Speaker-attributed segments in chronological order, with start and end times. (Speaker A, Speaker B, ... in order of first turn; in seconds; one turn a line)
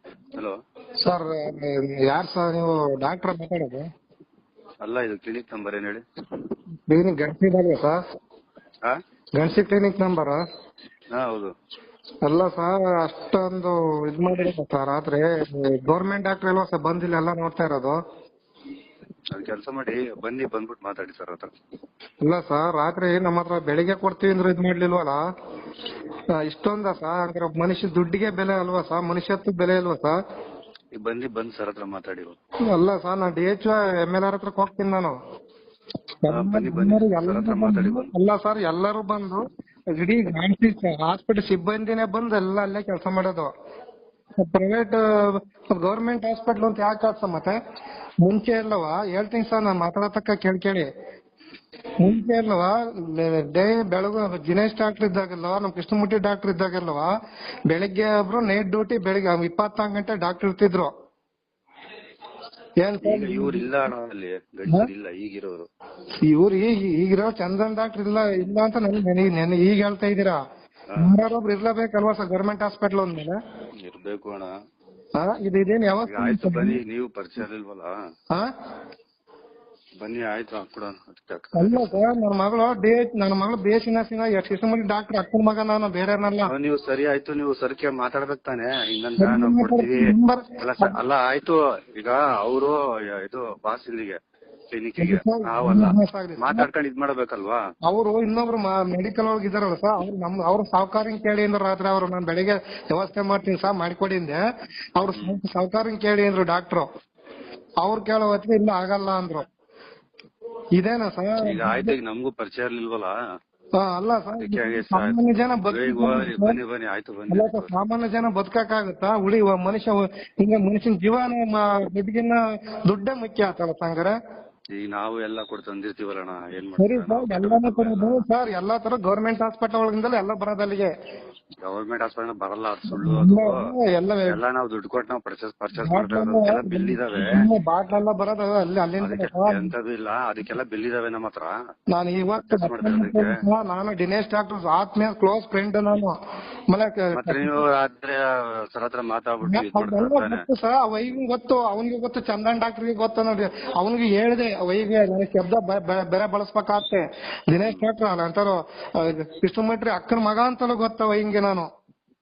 Speaker A: 1.0-3.9
Speaker B: 4.8-6.0
Speaker A: 6.9-8.0
Speaker A: 9.4-10.4
Speaker B: 11.1-11.5
Speaker A: 12.2-18.0
Speaker B: 19.3-21.5
Speaker A: 22.2-25.2
Speaker A: 26.4-30.2
Speaker B: 30.9-32.3
Speaker A: 32.7-35.1
Speaker A: 36.2-39.4
Speaker B: 36.3-38.1
Speaker A: 39.9-43.5
Speaker A: 44.4-47.5
Speaker A: 48.2-50.9
Speaker A: 52.0-57.1
Speaker B: 52.0-52.3
Speaker A: 57.7-60.9
Speaker A: 62.8-63.7
Speaker B: 63.0-65.7
Speaker A: 66.2-70.4
Speaker A: 71.0-73.4
Speaker B: 73.8-74.5
Speaker A: 75.2-76.8
Speaker B: 76.0-77.9
Speaker B: 80.0-81.9
Speaker A: 81.5-86.5
Speaker B: 86.5-94.2
Speaker A: 89.2-90.9
Speaker B: 94.7-97.6
Speaker A: 95.0-96.7
Speaker A: 97.9-104.4
Speaker A: 105.0-106.9
Speaker B: 105.1-105.4
Speaker A: 107.8-109.4
Speaker A: 110.8-111.9
Speaker B: 111.4-113.1
Speaker A: 113.8-116.6
Speaker B: 114.3-117.7
Speaker A: 117.3-124.1
Speaker B: 124.7-128.2
Speaker A: 126.8-130.9
Speaker B: 131.6-133.7
Speaker A: 132.9-134.4
Speaker B: 134.3-137.4
Speaker A: 135.8-139.7
Speaker B: 139.0-141.5
Speaker A: 141.9-146.2
Speaker B: 142.4-143.3
Speaker A: 146.7-147.6
Speaker B: 147.1-150.4
Speaker A: 149.4-161.7